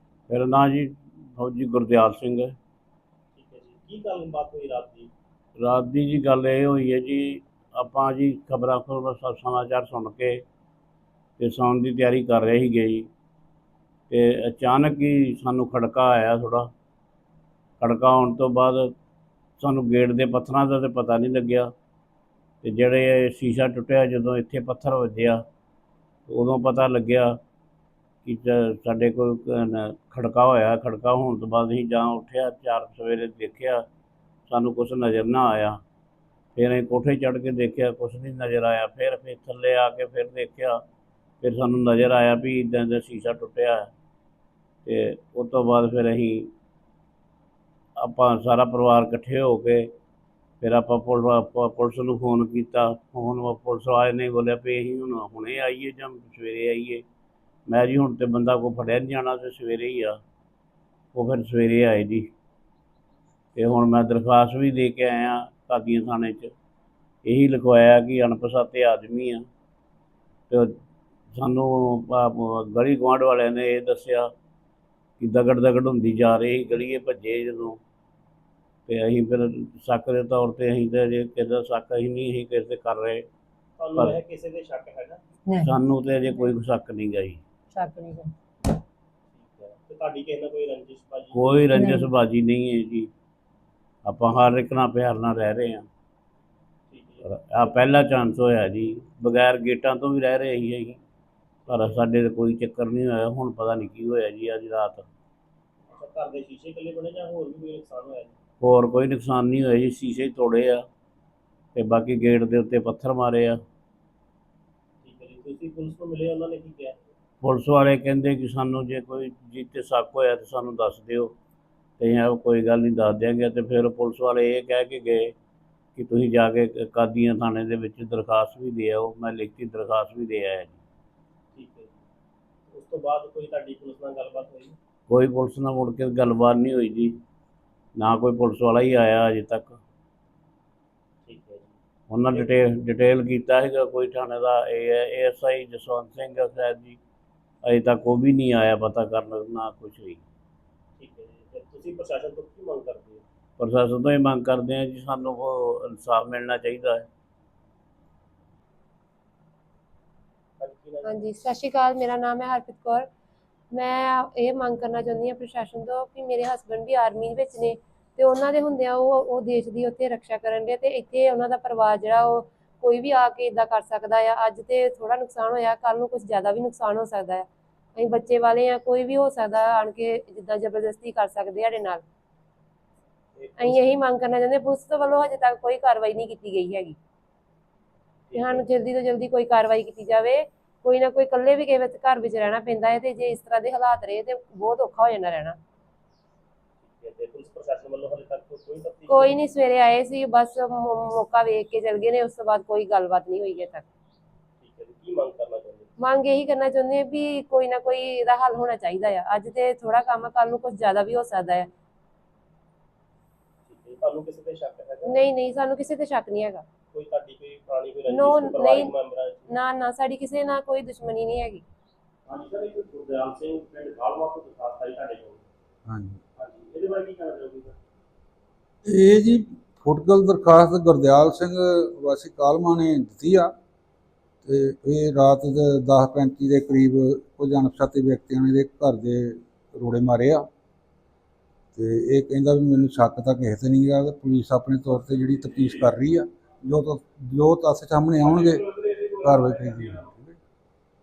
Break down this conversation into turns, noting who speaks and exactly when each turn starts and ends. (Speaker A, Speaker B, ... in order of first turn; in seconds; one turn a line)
Speaker A: 0.3-2.5
Speaker B: 3.3-5.1
Speaker A: 5.6-10.4
Speaker A: 11.4-13.1
Speaker A: 14.1-16.7
Speaker A: 17.8-18.9
Speaker A: 19.6-21.7
Speaker A: 22.6-25.4
Speaker A: 26.3-27.4
Speaker A: 28.2-33.8
Speaker A: 34.5-35.8
Speaker A: 36.5-40.8
Speaker A: 41.4-43.9
Speaker A: 44.9-46.5
Speaker A: 48.0-49.9
Speaker A: 50.6-57.0
Speaker A: 57.7-60.2
Speaker A: 61.1-62.3
Speaker A: 63.5-66.5
Speaker A: 67.2-69.4
Speaker A: 71.3-74.3
Speaker A: 75.2-77.8
Speaker A: 78.9-83.2
Speaker B: 83.8-85.2
Speaker C: 85.5-85.7
Speaker A: 85.6-87.4
Speaker C: 87.7-88.3
Speaker B: 89.3-91.6
Speaker A: 91.3-93.1
Speaker C: 91.7-92.1
Speaker A: 94.0-95.9
Speaker B: 96.9-97.8
Speaker A: 97.2-101.0
Speaker B: 101.7-102.0
Speaker A: 101.7-105.1
Speaker B: 105.9-108.3
Speaker A: 108.6-110.8
Speaker A: 111.7-113.6
Speaker B: 115.0-117.0
Speaker A: 117.4-121.3
Speaker A: 122.0-125.3
Speaker A: 126.0-130.8
Speaker B: 131.5-132.0
Speaker B: 132.7-134.8
Speaker A: 135.1-137.1
Speaker A: 137.9-139.8
Speaker B: 141.2-141.8
Speaker A: 142.1-147.0
Speaker A: 147.6-150.2
Speaker B: 151.0-153.2
Speaker A: 153.6-157.1
Speaker B: 160.6-161.1
Speaker C: 161.0-163.1
Speaker C: 163.7-182.0
Speaker B: 183.3-183.9
Speaker C: 183.6-187.0
Speaker B: 188.3-188.6
Speaker C: 188.3-195.6
Speaker B: 196.8-199.4
Speaker C: 199.1-203.9
Speaker B: 204.6-205.9
Speaker C: 206.0-211.7
Speaker B: 213.7-215.2
Speaker C: 215.1-216.6
Speaker B: 216.9-219.5
Speaker C: 218.1-218.9
Speaker C: 219.5-221.6
Speaker B: 222.3-225.4
Speaker D: 225.9-226.2
Speaker B: 226.4-227.8
Speaker D: 228.8-233.5
Speaker D: 234.4-240.5
Speaker D: 241.7-250.4